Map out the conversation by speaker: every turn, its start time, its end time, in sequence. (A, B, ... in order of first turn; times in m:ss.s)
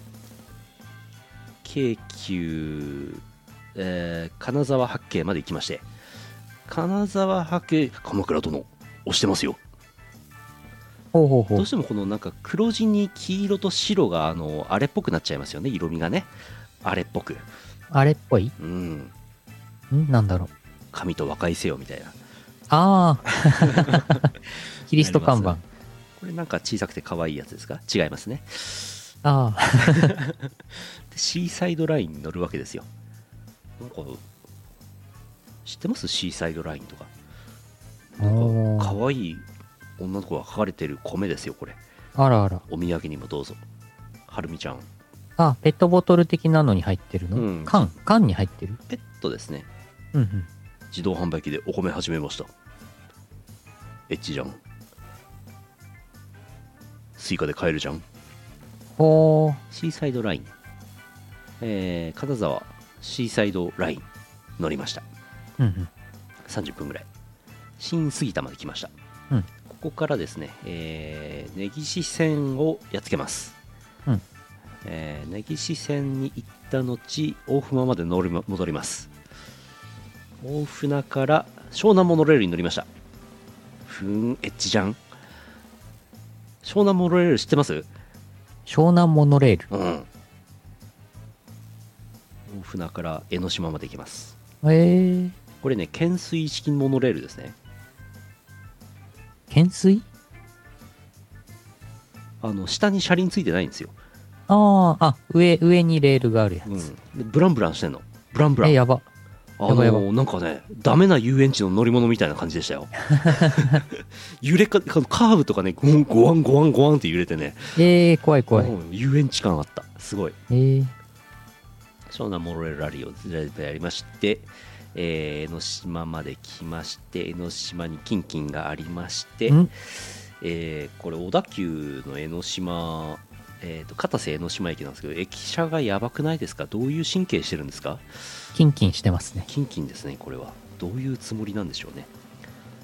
0:01.6-0:03.2 A
0:03.8-0:05.9 A
0:06.7-0:09.6 A
0:11.1-0:11.7 B
0:11.6-0:17.5 A
0:17.9-0:18.5 B
0:18.6-0:19.1 A
0:19.9-0:20.5 B
0:20.9-0:22.2 A
0:22.7-0:24.3 B
0:23.6-0:24.2 A
0:24.9-0:25.6 B
0:24.9-0:25.6 A
0:26.2-0:29.1 A
0:29.2-0:30.1 B
0:29.9-0:32.9 A
0:33.8-0:34.2 A
0:35.6-0:37.1 A
0:38.2-0:39.5 A
0:38.2-0:39.0 B
0:40.0-0:41.8 A
0:42.2-0:42.6 B
0:42.7-0:43.6 A
0:44.3-0:44.9 A
0:45.4-0:48.8 B
0:47.4-0:47.9 A
0:48.9-0:49.7 A
0:50.1-0:50.5 B
0:50.9-0:52.5 A
0:54.1-0:54.6 A
0:57.2-0:58.0 A
0:59.0-0:59.6 B
0:59.7-1:00.5 A
1:01.6-1:04.1 A
1:04.6-1:05.0 A
1:05.6-1:05.9 B
1:06.5-1:07.1 A
1:07.8-1:08.9 A
1:09.7-1:13.6 A
1:14.8-1:19.1 A
1:20.4-1:22.9 A
1:23.9-1:25.0 A
1:26.6-1:27.9 A
1:28.7-1:29.7 B
1:29.7-1:30.1 A
1:32.5-1:34.4 A
1:34.6-1:35.4 B
1:35.6-1:37.6 A
1:39.5-1:40.0 B
1:42.4-1:44.0 A
1:44.5-1:46.9 B
1:46.6-1:48.8 A
1:48.6-1:49.0 B
1:49.6-1:57.8 A
1:49.7-1:50.0 B
1:57.8-1:58.7 B
1:58.5-2:00.4 A
2:00.5-2:00.9 B
2:02.1-2:18.1 A
2:18.5-2:19.5 B
2:19.5-2:22.1 A